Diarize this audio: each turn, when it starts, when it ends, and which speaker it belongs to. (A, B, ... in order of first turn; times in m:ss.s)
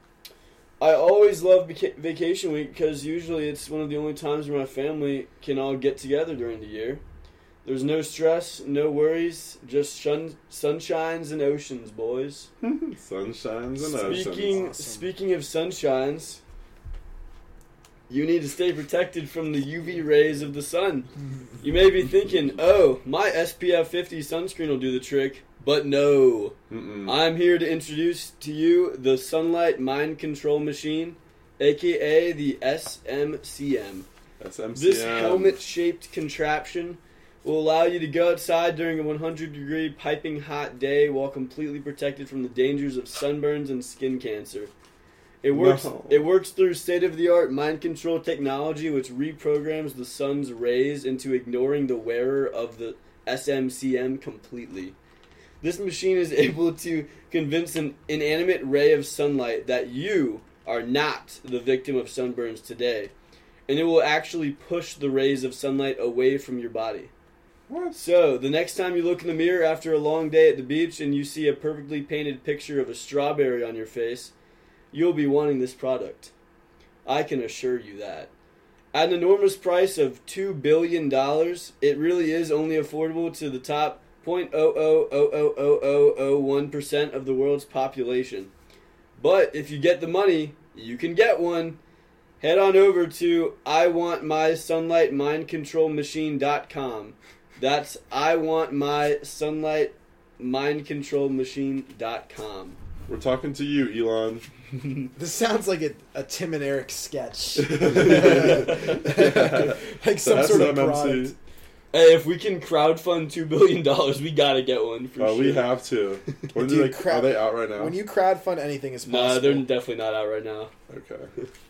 0:00.8-0:07.0 A
0:07.6-0:12.5 A
0:12.6-0:14.6 B
0:13.8-0:15.1 C
0:14.0-0:16.4 A
0:18.1-0:21.1 A
0:21.6-0:34.1 A
0:26.7-0:27.2 B
0:34.4-0:35.6 B
0:34.8-0:44.7 A
0:45.4-0:55.0 A
0:45.5-0:46.3 B
0:55.6-1:03.1 A
1:03.7-1:07.1 A
1:07.7-1:08.1 B
1:08.0-1:14.3 A
1:14.9-1:16.3 A
1:17.0-1:18.3 A
1:18.9-1:28.5 A
1:29.2-1:31.8 A
1:32.4-1:42.8 A
1:43.1-1:44.5 B
1:44.8-1:45.1 A
1:45.2-1:51.4 C
1:47.6-1:51.3 B
1:48.1-1:49.0 A
1:51.9-1:55.7 A
1:55.2-1:58.0 B
1:56.6-1:59.7 C
1:59.0-2:00.7 A
2:00.9-2:01.3 B